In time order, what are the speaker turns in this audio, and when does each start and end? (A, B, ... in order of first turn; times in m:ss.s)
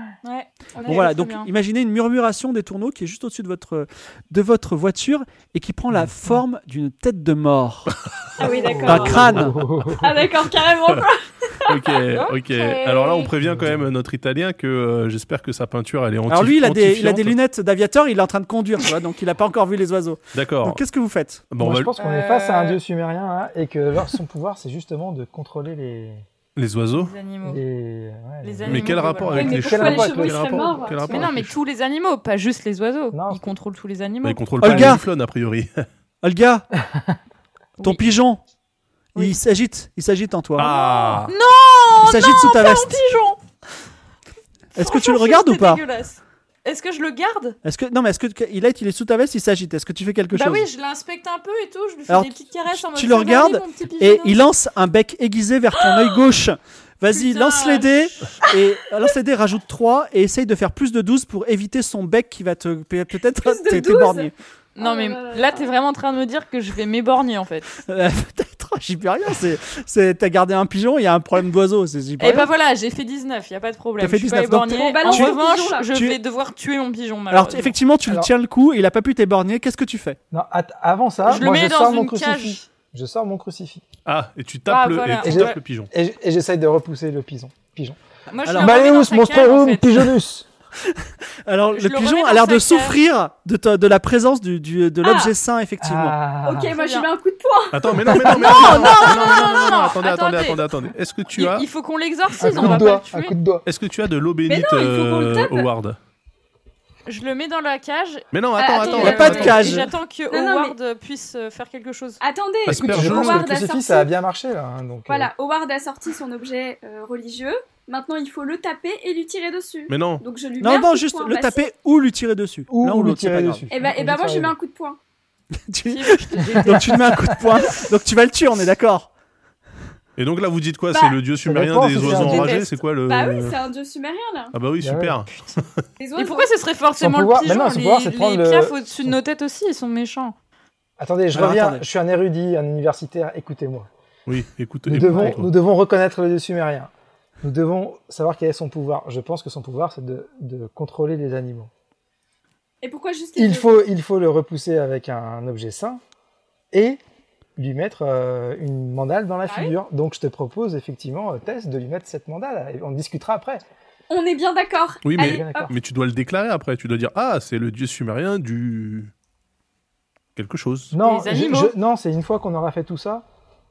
0:00.2-0:01.5 A
0:00.8-0:01.0 B
0:00.8-0:07.9 C
0:05.9-0:06.4 D
0:08.4-0:12.0 B
0:08.5-0:10.2 D
0:08.8-0:09.6 C
0:09.1-0:09.4 E
0:11.6-0:17.4 E
0:12.1-0:13.3 A
0:13.4-0:13.9 D
0:16.3-0:21.4 C
0:20.3-0:20.8 E
0:21.5-0:21.9 E
0:21.6-0:26.2 D
0:22.0-0:22.8 A
0:26.6-0:27.1 E
0:26.9-0:27.6 A
0:27.4-0:31.3 D
0:28.4-0:29.6 A
0:28.6-0:31.6 E
0:29.3-0:31.1 B
0:31.1-0:34.4 A
0:33.1-0:33.5 D
0:34.2-0:35.9 E
0:34.6-0:35.0 C
0:36.2-0:36.6 C
0:36.8-0:37.2 D
0:37.8-0:38.0 A
0:37.8-0:38.4 C
0:39.2-0:40.7 C
0:40.6-0:41.3 E
0:40.6-0:43.4 A
0:42.0-0:43.0 C
0:44.7-0:45.8 C
0:44.8-0:47.6 A
0:47.6-0:50.6 C
0:50.3-0:54.4 A
0:52.1-1:04.3 C
0:57.1-0:57.9 A
1:03.4-1:05.7 B
1:04.8-1:07.7 A
1:07.8-1:12.5 C
1:12.2-1:17.7 A
1:14.0-1:15.4 C
1:14.7-1:15.9 B
1:15.9-1:16.2 C
1:17.3-1:20.2 C
1:18.0-1:18.3 D
1:20.3-1:23.8 D
1:21.2-1:22.6 A
1:24.0-1:25.9 E
1:24.7-1:25.6 A
1:25.2-1:28.0 D
1:28.3-1:30.1 A
1:28.4-1:28.8 C
1:28.5-1:30.5 D
1:30.8-1:36.2 C
1:31.7-1:33.0 A
1:35.0-1:35.3 B
1:35.8-1:36.7 D
1:36.4-1:39.0 B
1:36.7-1:37.1 A
1:37.7-1:41.7 E
1:38.0-1:38.4 D
1:38.2-1:40.6 A
1:41.3-1:43.4 A
1:42.4-1:43.6 D
1:42.5-1:42.8 E
1:43.6-1:46.0 E
1:44.5-1:45.7 B
1:47.0-1:52.2 A
1:48.3-1:49.8 E
1:48.6-1:50.8 B
1:49.0-1:49.9 C
1:52.2-1:54.1 B
1:52.7-1:53.5 E
1:52.8-1:55.3 D
1:55.1-2:01.6 B
1:59.9-2:00.2 E
2:00.6-2:03.7 C
2:02.7-2:04.5 D
2:03.7-2:05.0 B
2:05.7-2:09.1 C
2:05.8-2:07.7 A
2:10.2-2:13.6 E
2:10.9-2:11.2 B
2:11.4-2:12.6 D
2:12.1-2:12.6 A
2:12.4-2:14.5 B
2:14.5-2:15.8 E
2:14.8-2:15.2 D
2:15.3-2:15.6 A
2:16.0-2:16.5 B
2:16.2-2:20.3 A
2:17.0-2:19.2 D
2:21.0-2:23.9 D
2:21.3-2:21.8 C
2:24.3-2:25.5 E
2:24.9-2:26.9 D
2:27.4-2:31.7 D
2:32.8-2:33.8 B
2:33.4-2:36.0 D
2:36.7-2:37.0 D
2:37.6-2:43.6 D
2:39.5-2:39.7 B
2:44.1-2:45.7 B
2:45.0-2:49.1 E
2:45.2-2:45.7 D
2:50.4-2:50.9 E
2:50.9-2:53.2 D
2:51.0-2:51.7 A